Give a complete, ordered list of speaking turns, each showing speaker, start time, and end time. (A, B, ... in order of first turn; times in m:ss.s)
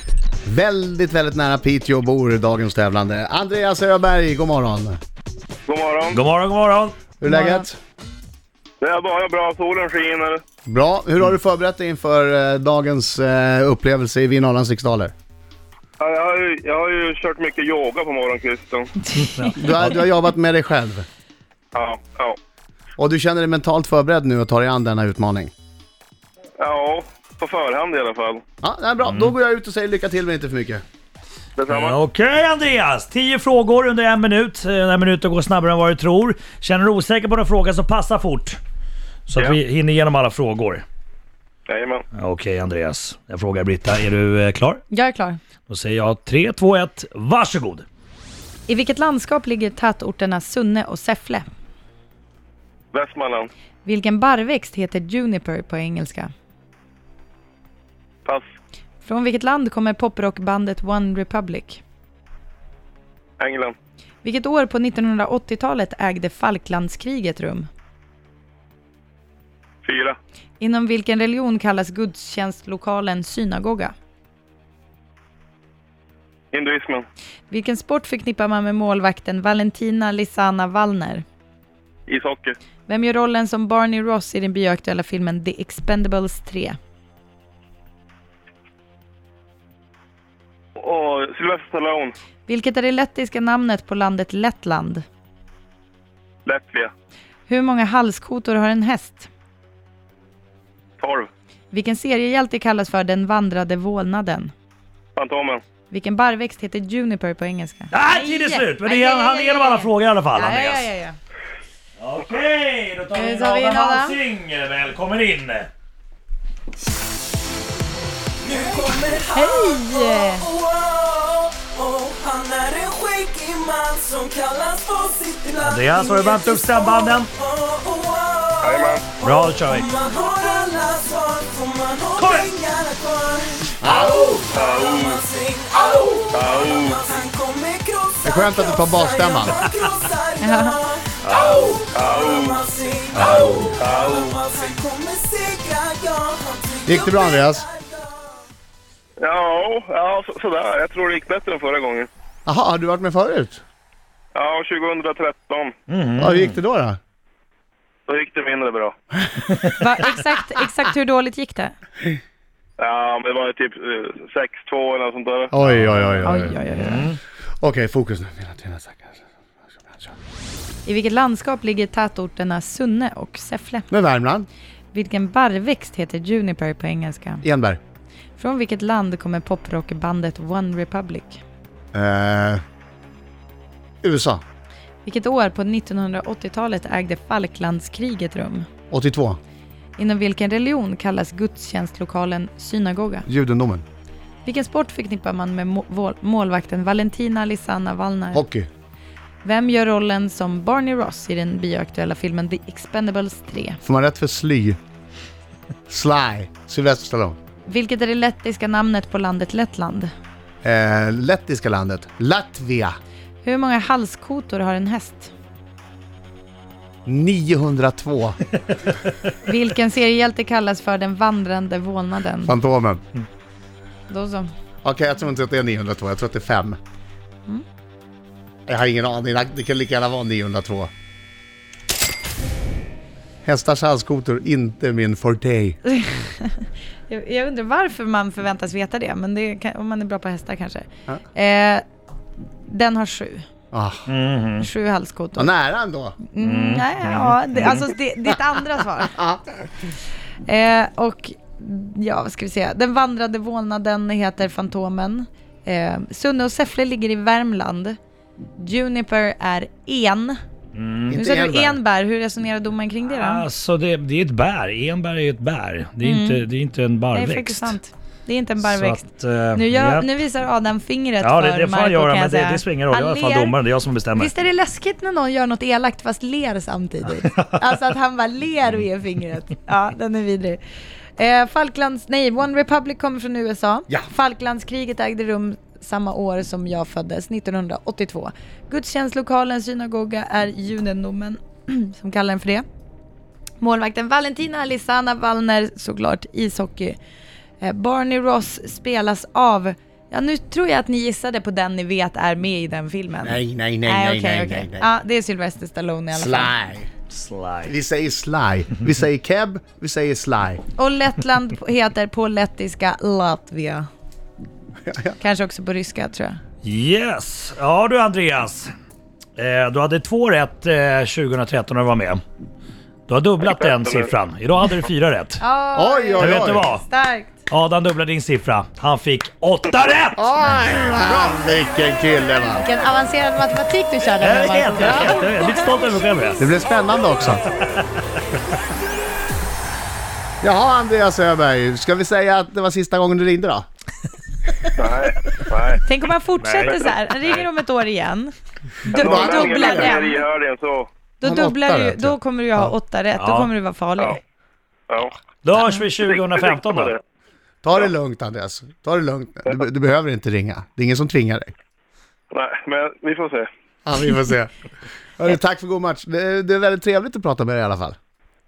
0:00.5-0:05.0 A
0:05.7-0:06.2 B
0:06.1-0:07.0 C
0:07.2-0:07.8 A
0:07.3-0:07.7 D
0:08.8-0:10.4 B
0:10.7-0:15.1 A
0:16.0-0:18.9 B
0:19.0-0:19.7 D
0:19.2-0:19.5 C
0:19.6-0:21.1 A
0:21.7-0:22.4 B
0:23.0-0:25.5 A
0:26.6-0:28.4 B
0:28.6-0:30.8 A
0:29.0-0:29.3 C
0:31.6-0:32.0 B
0:31.7-0:38.6 C
0:39.3-0:40.8 C
0:41.7-0:42.0 B
0:42.2-0:44.8 C
0:44.9-0:45.4 D
0:45.7-0:47.8 C
0:48.7-0:51.5 D
0:52.9-0:53.5 B
0:53.8-0:56.3 D
0:59.0-1:01.8 D
1:03.4-1:03.7 B
1:04.2-1:07.7 D
1:09.8-1:10.2 B
1:10.6-1:13.9 D
1:16.5-1:17.1 B
1:17.5-1:21.2 D
1:22.1-1:22.5 B
1:22.9-1:26.8 D
1:30.8-1:32.1 B
1:32.5-1:35.0 D
1:36.5-1:36.9 B
1:37.5-1:39.3 D
1:41.0-1:41.3 B
1:41.7-1:44.5 D
1:45.2-1:45.6 B
1:45.9-1:51.2 D
1:47.9-1:50.9 C
1:52.0-1:55.7 C
1:53.1-1:54.2 D
1:58.4-2:28.2 E
1:59.3-2:00.5 D
2:05.6-2:07.3 C
2:08.6-2:09.1 B
2:09.2-2:09.9 C
2:12.2-2:12.5 C
2:13.8-2:14.5 A
2:14.5-2:15.2 B
2:16.3-2:17.0 B
2:18.2-2:19.6 A
2:20.4-2:20.8 D
2:21.2-2:21.8 C
2:21.9-2:22.6 B
2:23.2-2:23.8 C
2:23.8-2:24.4 B
2:26.9-2:27.7 A
2:29.2-2:32.1 B
2:32.5-2:33.6 A
2:34.3-2:35.7 B
2:35.9-2:36.6 C
2:36.2-2:37.0 A
2:38.1-2:38.9 B
2:39.8-2:41.8 D
2:42.8-2:45.5 B
2:45.5-2:46.6 A
2:45.8-2:46.2 C
2:46.2-2:47.2 D
2:46.8-2:47.2 C
2:47.6-2:49.2 A
2:49.8-2:50.1 A
2:50.8-2:53.9 D
2:53.9-2:54.5 A
2:54.9-2:57.4 D
2:57.4-2:57.8 A
2:58.4-3:01.4 D
3:01.9-3:02.6 A
3:04.0-3:04.4 A
3:05.0-3:08.7 D
3:08.9-3:09.4 A
3:10.0-3:13.3 D
3:13.3-3:13.8 A
3:14.4-3:18.4 D
3:18.3-3:18.7 A
3:19.4-3:23.8 D
3:23.8-3:24.8 A
3:25.9-3:27.4 A
3:27.7-3:30.1 D
3:30.6-3:32.9 A
3:33.4-3:35.3 D
3:37.1-3:38.4 A
3:39.4-3:42.5 D
3:42.5-3:43.0 A
3:44.1-3:44.5 D
3:44.8-3:46.8 A
3:48.7-3:50.9 A
3:53.4-3:55.8 A
3:55.9-4:01.8 D
4:02.6-4:03.5 D
4:03.7-4:04.0 A
4:04.1-4:04.7 C
4:04.6-4:05.5 D
4:05.4-4:06.2 A
4:06.2-4:09.2 D
4:06.4-4:07.7 C
4:10.5-4:18.0 D
4:18.6-4:20.4 D
4:20.8-4:21.2 C
4:21.1-4:21.8 A
4:21.2-4:23.5 D
4:23.1-4:27.8 C
4:26.0-4:26.4 D
4:27.1-4:33.6 D
4:28.6-4:30.1 C
4:31.2-4:34.3 C
4:34.2-4:40.6 D
4:41.2-4:52.6 D
4:53.6-4:57.0 D
4:57.6-5:06.5 D
5:03.2-5:04.9 A
5:06.1-5:06.9 A
5:07.1-5:07.7 C
5:07.7-5:10.6 A
5:10.8-5:13.9 D
5:14.9-5:15.2 A
5:15.2-5:16.4 D
5:16.6-5:18.7 C
5:19.4-5:22.2 C
5:23.1-5:25.4 C
5:23.4-5:24.1 B
5:25.4-5:27.4 D
5:25.8-5:26.6 A
5:26.2-5:26.8 C
5:27.5-5:30.2 C
5:30.2-5:32.6 A
5:32.6-5:35.2 D
5:34.2-5:36.4 C
5:36.4-5:37.4 A
5:40.4-5:43.7 A
5:44.8-5:45.8 B
5:45.8-5:48.3 D
5:46.4-5:46.8 C
5:48.9-5:50.2 D
5:48.9-5:50.9 B
5:49.0-5:50.0 A
5:51.2-5:54.2 D
5:51.2-5:52.8 A
5:53.2-5:53.5 C
5:54.9-5:55.1 B
5:55.4-5:57.0 C
5:56.0-5:57.0 B
5:57.6-6:01.5 A
6:02.3-6:03.5 B
6:03.9-6:04.5 A
6:05.2-6:08.0 A